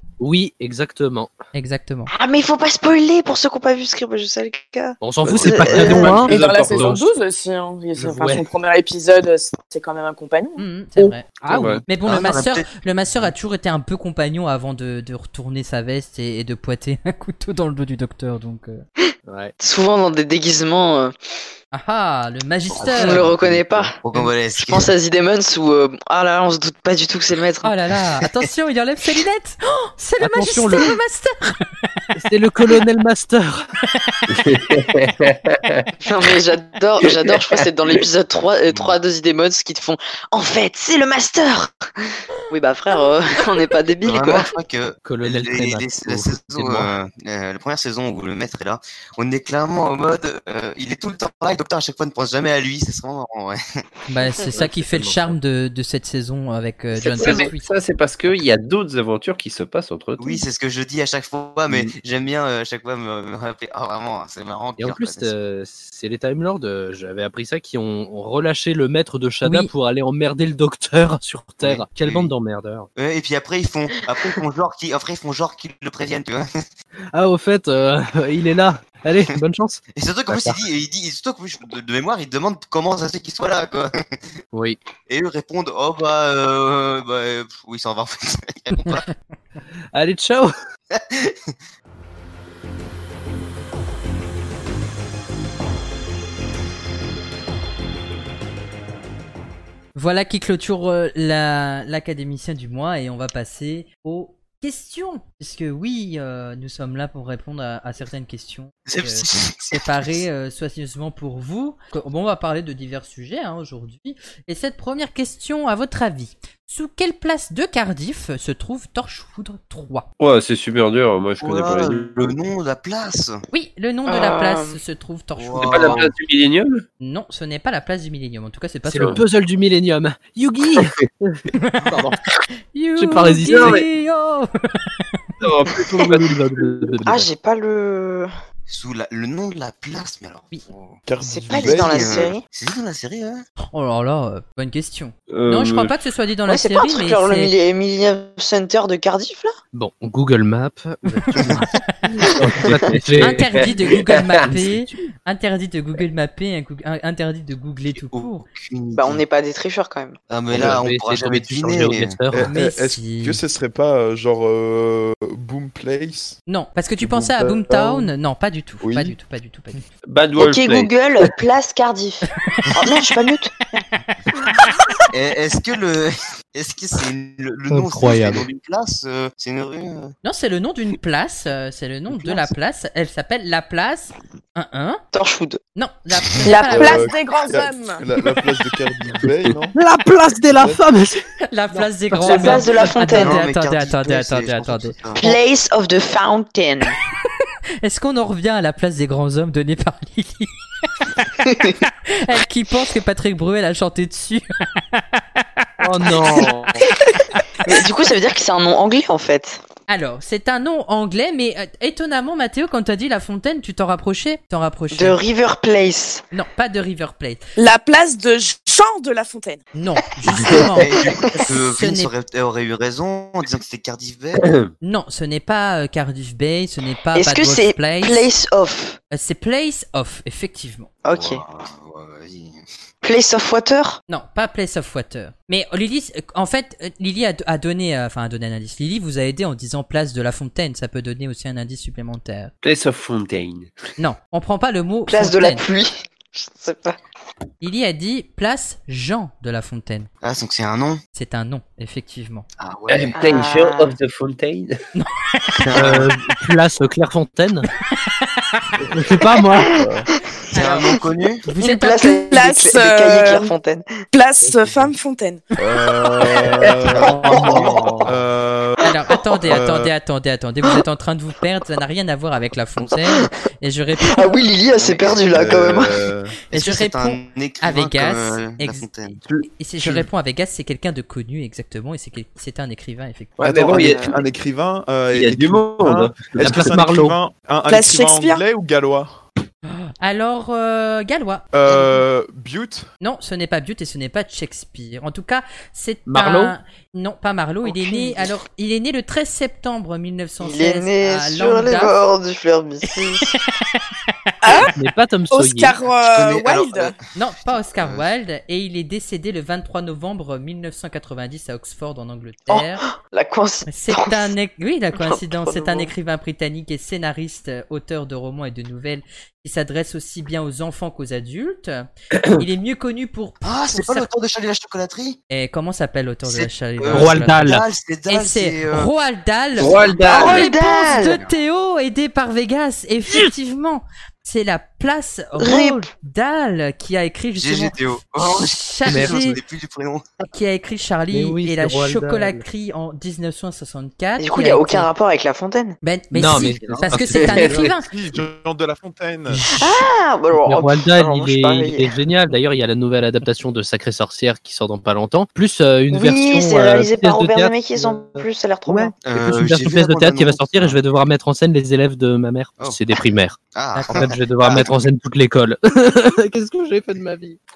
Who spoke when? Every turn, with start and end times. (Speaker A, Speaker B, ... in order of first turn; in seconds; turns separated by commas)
Speaker A: 0.2-1.3, Speaker B: 1.5-2.1, Speaker C: 2.1-6.2, Speaker A: 5.0-6.9, Speaker D: 5.2-7.1, Speaker E: 6.0-10.6, Speaker A: 8.0-8.5, Speaker B: 10.6-18.8, Speaker A: 11.0-11.8, Speaker D: 11.5-11.8, Speaker F: 12.0-12.7, Speaker A: 19.3-19.5, Speaker C: 19.6-21.1, Speaker B: 21.7-23.3, Speaker A: 22.9-23.3, Speaker C: 23.0-24.0, Speaker D: 23.3-23.8, Speaker F: 24.0-24.9, Speaker C: 24.6-27.7, Speaker B: 27.6-31.6, Speaker A: 30.2-30.9, Speaker A: 32.2-33.7, Speaker B: 34.0-34.2, Speaker D: 34.3-35.9, Speaker C: 36.1-41.7, Speaker D: 37.0-38.0, Speaker F: 38.7-39.0, Speaker C: 42.5-44.5, Speaker F: 44.1-53.6, Speaker A: 44.1-44.4, Speaker A: 45.0-46.9, Speaker B: 54.1-57.7, Speaker A: 54.5-55.3, Speaker D: 57.0-60.4, Speaker F: 60.2-65.3, Speaker A: 64.8-72.9, Speaker B: 69.4-69.7, Speaker F: 71.6-72.3, Speaker F: 73.0-76.7, Speaker A: 77.1-80.6, Speaker F: 79.9-84.2, Speaker A: 84.5-84.8, Speaker F: 85.1-89.1, Speaker A: 89.9-90.5, Speaker F: 90.9-91.5, Speaker B: 100.0-120.1, Speaker F: 108.9-110.2, Speaker D: 120.2-122.3, Speaker F: 121.4-123.4, Speaker B: 123.5-126.0, Speaker C: 124.1-124.8, Speaker F: 125.4-126.2, Speaker D: 125.6-126.8, Speaker B: 127.0-129.2, Speaker A: 128.9-132.2, Speaker B: 131.6-131.9, Speaker B: 132.7-135.2, Speaker A: 133.0-133.8, Speaker D: 133.4-133.8, Speaker D: 135.4-136.4, Speaker A: 135.8-137.3, Speaker C: 137.1-138.3, Speaker F: 138.7-141.0, Speaker G: 141.1-142.3, Speaker C: 141.3-142.4, Speaker B: 141.4-141.8, Speaker F: 141.8-143.4, Speaker B: 143.6-147.5, Speaker D: 145.3-145.9, Speaker C: 146.5-149.5, Speaker A: 149.7-153.6, Speaker B: 151.2-151.6, Speaker D: 152.6-154.8, Speaker B: 153.2-158.5, Speaker F: 158.0-159.2, Speaker C: 158.9-160.2, Speaker F: 160.3-162.2, Speaker A: 160.5-162.5, Speaker G: 162.3-166.4, Speaker B: 162.5-163.4, Speaker B: 166.5-169.8, Speaker G: 167.0-168.1, Speaker G: 168.8-169.2, Speaker D: 170.1-171.3, Speaker C: 170.4-173.5, Speaker F: 175.1-180.1, Speaker A: 177.7-178.5, Speaker B: 180.2-185.0, Speaker A: 182.2-182.5, Speaker C: 185.1-185.6, Speaker B: 185.8-187.1, Speaker E: 186.4-188.0, Speaker G: 186.7-189.8, Speaker A: 189.7-193.2, Speaker G: 190.5-190.8, Speaker B: 191.5-194.9, Speaker C: 192.2-193.4, Speaker F: 193.2-195.3, Speaker C: 195.2-197.0, Speaker B: 197.8-200.5, Speaker C: 201.4-201.8, Speaker B: 202.1-205.0, Speaker A: 205.8-206.9, Speaker B: 207.3-207.8, Speaker C: 207.7-209.6, Speaker B: 209.9-215.2, Speaker C: 214.9-216.2, Speaker B: 216.3-217.4, Speaker E: 217.6-219.6, Speaker B: 219.7-222.1, Speaker F: 220.8-224.4, Speaker D: 224.4-224.7, Speaker B: 224.8-228.3, Speaker C: 227.2-229.0, Speaker B: 229.1-230.9, Speaker C: 231.1-231.4, Speaker F: 231.1-232.6, Speaker C: 233.0-234.0, Speaker B: 234.1-242.5, Speaker D: 242.6-243.7, Speaker B: 244.0-245.7, Speaker C: 245.1-247.0, Speaker B: 247.6-250.1, Speaker F: 250.2-251.0, Speaker B: 251.1-252.5, Speaker F: 252.6-253.2, Speaker D: 252.9-254.8, Speaker C: 253.2-253.9, Speaker B: 254.9-255.5, Speaker F: 255.6-256.1, Speaker A: 255.8-257.7, Speaker G: 258.8-259.1, Speaker A: 258.9-259.7, Speaker G: 259.7-260.1, Speaker B: 260.5-262.1, Speaker F: 260.6-261.4, Speaker C: 261.6-263.8, Speaker E: 262.3-263.5, Speaker E: 264.1-265.4, Speaker A: 264.4-264.9, Speaker G: 265.6-268.9, Speaker F: 266.9-268.0, Speaker A: 267.3-268.1, Speaker B: 268.8-274.3, Speaker G: 269.4-269.9, Speaker C: 274.1-276.0, Speaker F: 274.8-275.2, Speaker G: 275.3-276.4, Speaker F: 276.5-279.2, Speaker B: 276.5-278.9, Speaker G: 279.3-280.1, Speaker B: 279.5-283.7, Speaker D: 283.4-284.1, Speaker G: 283.4-289.2, Speaker C: 283.8-284.2, Speaker D: 285.1-286.8, Speaker A: 286.4-287.2, Speaker E: 287.7-288.4, Speaker B: 289.7-291.5, Speaker G: 291.5-292.9, Speaker B: 293.0-302.0, Speaker A: 296.1-296.6, Speaker E: 297.8-298.1, Speaker C: 300.4-303.3, Speaker E: 304.4-304.7, Speaker A: 304.7-305.8, Speaker E: 305.3-306.9, Speaker F: 306.1-308.1, Speaker B: 307.1-312.8, Speaker C: 312.5-314.3, Speaker B: 313.7-324.1, Speaker C: 314.9-315.9, Speaker D: 322.1-322.4, Speaker F: 323.4-325.2, Speaker B: 325.3-327.6, Speaker F: 326.2-328.9, Speaker A: 326.9-327.7, Speaker B: 328.1-339.4, Speaker D: 329.6-330.5, Speaker C: 330.1-331.2, Speaker F: 331.0-331.4, Speaker C: 335.4-335.8, Speaker F: 337.4-340.0, Speaker A: 338.9-339.3, Speaker B: 340.3-344.9, Speaker A: 341.1-342.4, Speaker C: 344.2-345.8, Speaker B: 345.8-347.9, Speaker A: 346.1-347.6, Speaker D: 347.1-347.7, Speaker G: 347.8-349.4, Speaker B: 349.4-349.7, Speaker C: 349.6-351.9, Speaker A: 350.3-367.4, Speaker C: 355.9-358.9, Speaker F: 359.0-360.8, Speaker F: 362.6-362.9, Speaker F: 363.5-364.8, Speaker B: 363.8-364.1